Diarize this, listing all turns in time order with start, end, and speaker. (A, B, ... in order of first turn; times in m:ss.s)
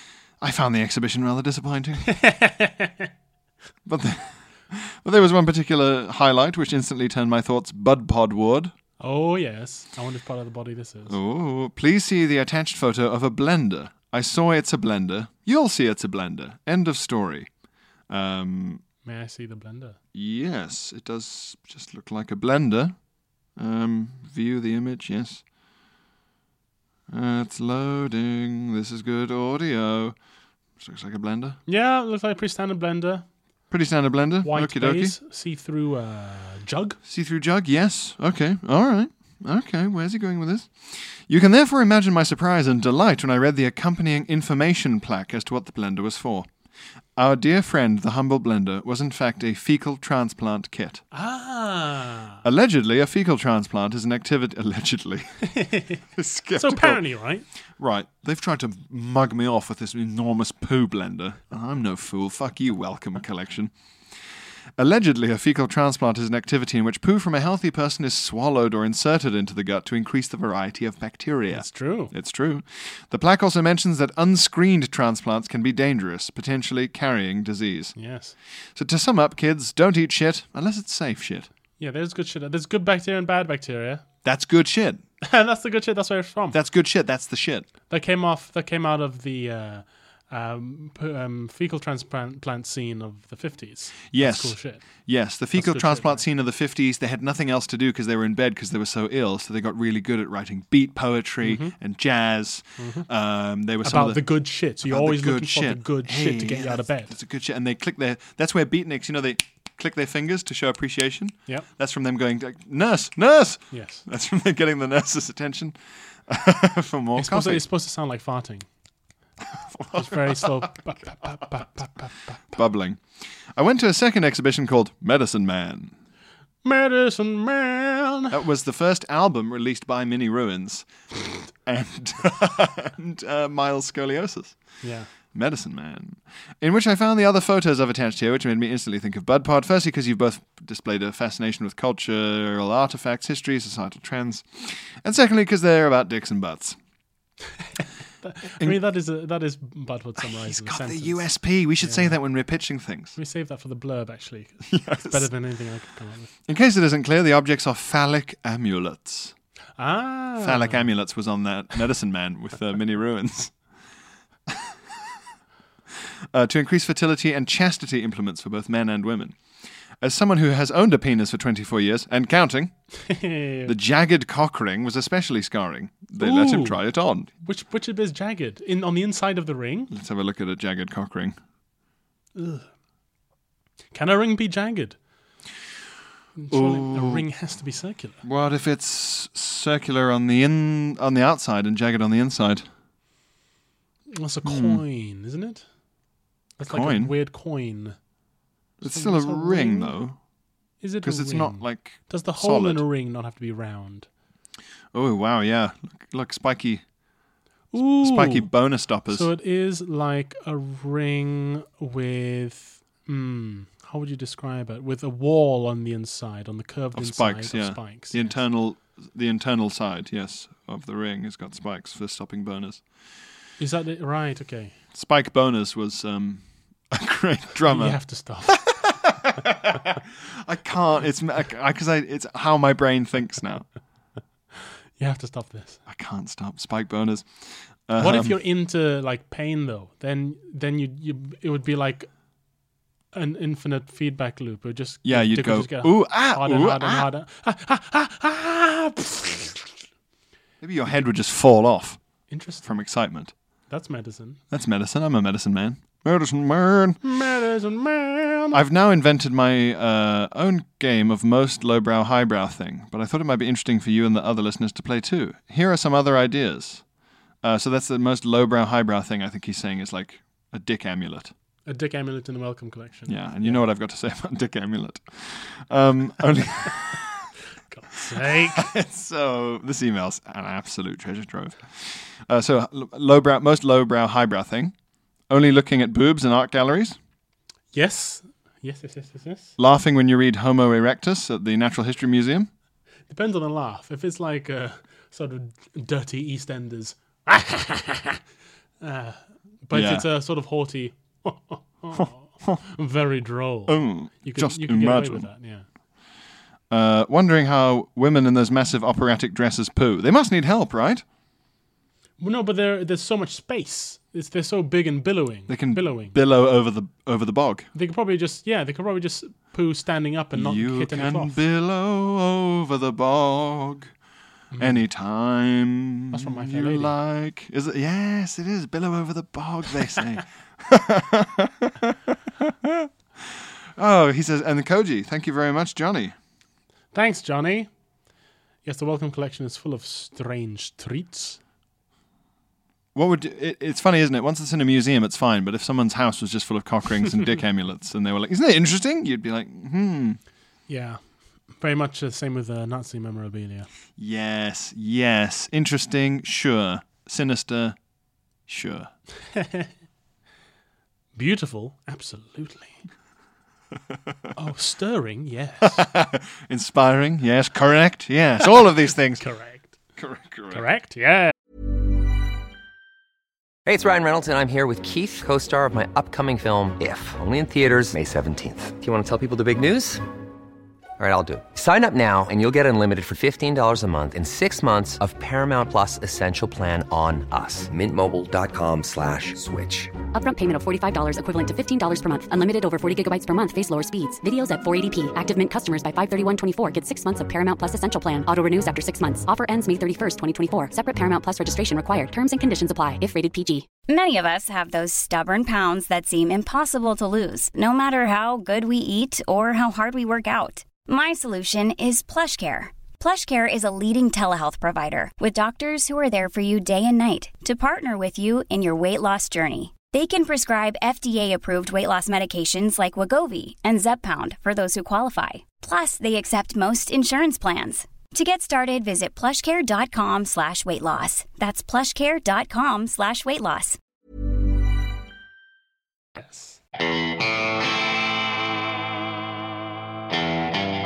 0:00.4-0:02.1 A
0:02.1-0:03.1 B
0:03.9-0:08.7 A
0:09.0-0:11.2 B
0:11.1-0:17.5 A
0:18.1-0:18.8 A
0:19.0-0:20.0 B
0:20.1-0:23.0 A
0:23.6-0:25.4 A
0:27.1-0:30.2 A
0:30.8-0:31.6 A
0:31.7-0:33.2 B
0:33.7-0:35.2 A
0:34.4-0:37.0 B
0:37.1-0:46.5 A
0:47.2-0:51.0 A
0:51.1-0:52.4 B
0:52.4-0:55.4 A
0:55.5-0:56.0 B
0:56.2-0:57.0 A
0:56.6-0:57.5 B
0:57.8-1:03.7 A
1:04.8-1:17.9 A
1:11.5-1:12.1 B
1:18.0-1:18.4 B
1:18.8-1:21.5 A
1:21.8-1:24.0 B
1:24.2-1:25.0 A
1:25.2-1:26.6 B
1:26.5-1:27.7 A
1:27.9-1:34.8 B
1:34.1-1:44.2 A
1:35.5-1:36.2 B
1:41.4-1:41.8 B
1:42.8-1:43.1 B
1:43.8-1:47.2 B
1:44.8-1:57.6 A
1:53.7-1:54.0 B
1:57.2-1:58.7 B
1:59.5-2:00.6 A
1:59.9-2:02.4 B
2:02.5-2:03.0 A
2:03.5-2:05.9 A
2:06.6-2:08.4 B
2:08.3-2:10.9 A
2:11.6-2:14.6 A
2:14.8-2:15.1 B
2:15.3-2:26.8 A
2:28.2-2:31.3 B
2:30.3-2:33.2 A
2:31.8-2:32.2 B
2:33.2-2:36.3 B
2:34.7-2:35.3 A
2:36.5-2:39.3 A
2:39.8-2:40.9 B
2:40.4-2:43.5 A
2:46.3-2:49.4 A
2:50.0-2:52.7 A
2:53.0-2:53.7 B
2:53.7-2:57.3 A
2:56.2-2:56.8 B
2:57.4-2:59.9 B
2:59.9-3:01.4 A
3:02.4-3:02.7 B
3:03.9-3:05.0 B
3:06.4-3:08.2 B
3:06.5-3:07.3 A
3:08.2-3:12.6 A
3:14.1-3:15.6 B
3:14.4-3:14.8 A
3:16.6-3:18.0 B
3:16.7-3:17.1 A
3:18.8-3:20.2 A
3:18.8-3:20.0 B
3:20.8-3:24.1 B
3:21.0-3:22.8 A
3:24.9-3:26.8 A
3:27.7-3:28.5 B
3:28.0-3:29.3 A
3:29.1-3:38.4 B
3:37.0-3:42.8 A
3:43.6-3:44.8 B
3:44.9-3:53.7 A
3:47.6-3:48.7 B
3:55.0-3:55.8 B
3:55.9-3:57.3 A
3:57.9-3:58.4 A
3:58.0-4:02.1 B
4:03.1-4:09.7 B
4:05.0-4:07.1 A
4:10.6-4:12.0 A
4:12.3-4:12.7 B
4:12.6-4:13.3 A
4:13.7-4:14.4 B
4:14.5-4:17.0 A
4:17.0-4:18.6 B
4:18.5-4:26.8 A
4:27.4-4:31.3 A
4:31.7-4:33.6 B
4:33.1-4:37.3 A
4:37.7-4:38.7 B
4:38.2-4:44.7 A
4:45.3-4:47.0 A
4:47.7-4:49.5 B
4:49.6-4:52.5 A
4:53.1-4:58.2 B
4:58.8-5:05.6 B
4:59.7-5:00.1 A
5:01.9-5:02.6 A
5:03.7-5:05.3 A
5:06.7-5:11.0 A
5:12.2-5:16.2 B
5:15.5-5:17.7 A
5:17.8-5:21.4 B
5:20.3-5:23.9 A
5:24.5-5:24.8 B
5:24.6-5:36.2 A
5:26.1-5:26.9 B
5:36.9-5:37.7 B
5:38.6-5:41.4 B
5:43.0-5:50.2 A
5:50.7-5:51.0 B
5:51.6-5:53.7 B
5:54.0-5:57.8 A
5:58.5-5:58.9 A
5:59.4-5:59.7 B
6:01.2-6:02.8 B
6:04.4-6:05.9 B
6:05.6-6:09.2 A
6:09.2-6:09.7 B
6:10.0-6:10.6 A
6:10.5-6:11.3 B
6:13.7-6:20.0 C
6:21.0-6:29.9 C
6:30.1-6:43.7 D
6:43.9-7:13.8 E
7:16.2-7:16.6 B